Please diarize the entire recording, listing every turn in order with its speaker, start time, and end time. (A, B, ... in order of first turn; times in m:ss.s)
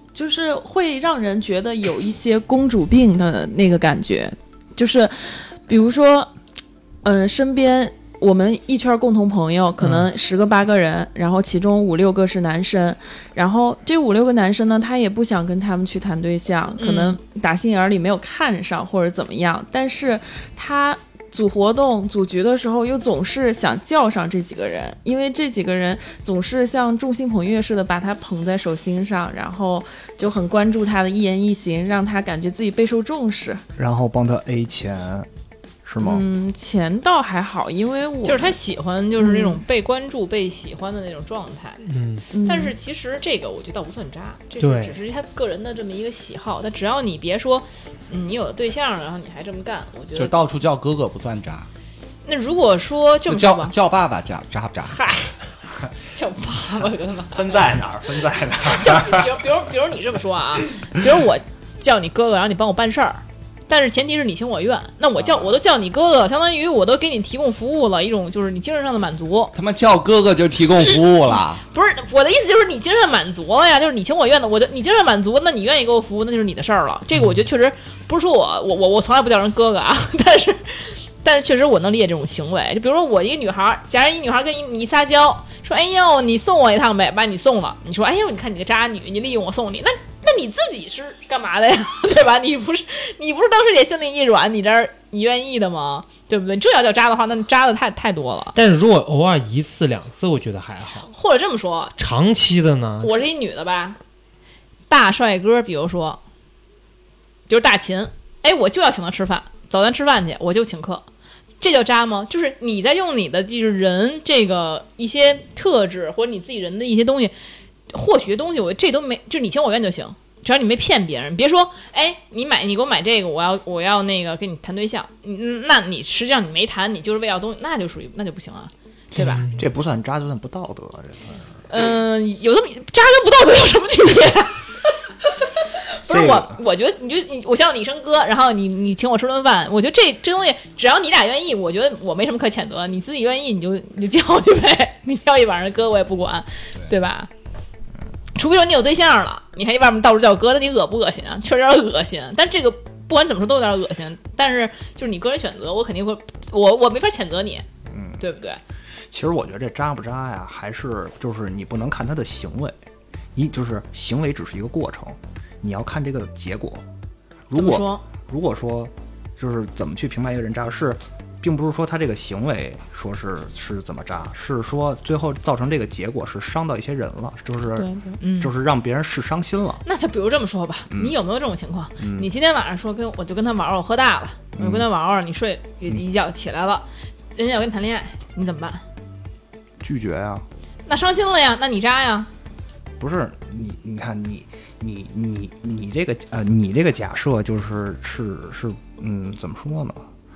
0:00.1-0:06.3 A
0:07.0-0:33.6 A
0:09.8-0:10.1 B
0:16.8-0:17.2 C
0:33.8-0:35.3 D
0:35.8-0:36.2 D
0:36.0-0:38.6 A
0:38.2-0:41.8 C
0:39.2-0:39.6 A
0:41.8-0:42.3 B
0:42.3-0:42.8 A
0:42.4-0:50.3 C
0:44.6-0:45.0 B
0:50.1-0:51.7 E
0:52.2-0:53.7 C
0:53.3-0:55.1 E
0:54.9-0:55.3 C
0:56.1-0:57.5 C
0:57.3-0:59.3 D
0:58.6-1:09.5 C
1:09.5-1:11.6 E
1:11.7-1:38.6 C
1:38.5-1:41.1 B
1:41.1-1:42.0 C
1:42.0-1:43.2 B
1:43.0-1:44.0 C
1:44.9-1:46.2 C
1:47.5-1:51.0 C
1:51.6-1:57.3 C
1:57.9-2:09.4 C
2:09.2-2:09.6 B
2:09.5-2:11.4 D
2:11.7-2:14.7 C
2:16.0-2:27.3 C
2:16.1-2:16.6 D
2:28.3-2:37.6 C
2:37.9-2:38.2 D
2:38.2-2:38.6 C
2:39.1-2:42.8 D
2:43.3-2:46.8 D
2:47.5-2:59.8 D
2:47.5-2:48.0 C
2:57.8-2:58.2 A
2:58.2-2:58.5 C
2:59.8-3:06.8 C
3:00.9-3:01.2 D
3:02.0-3:02.3 D
3:04.5-3:04.9 D
3:07.4-3:08.8 C
3:09.8-3:10.4 D
3:10.8-3:12.3 C
3:13.0-3:20.1 D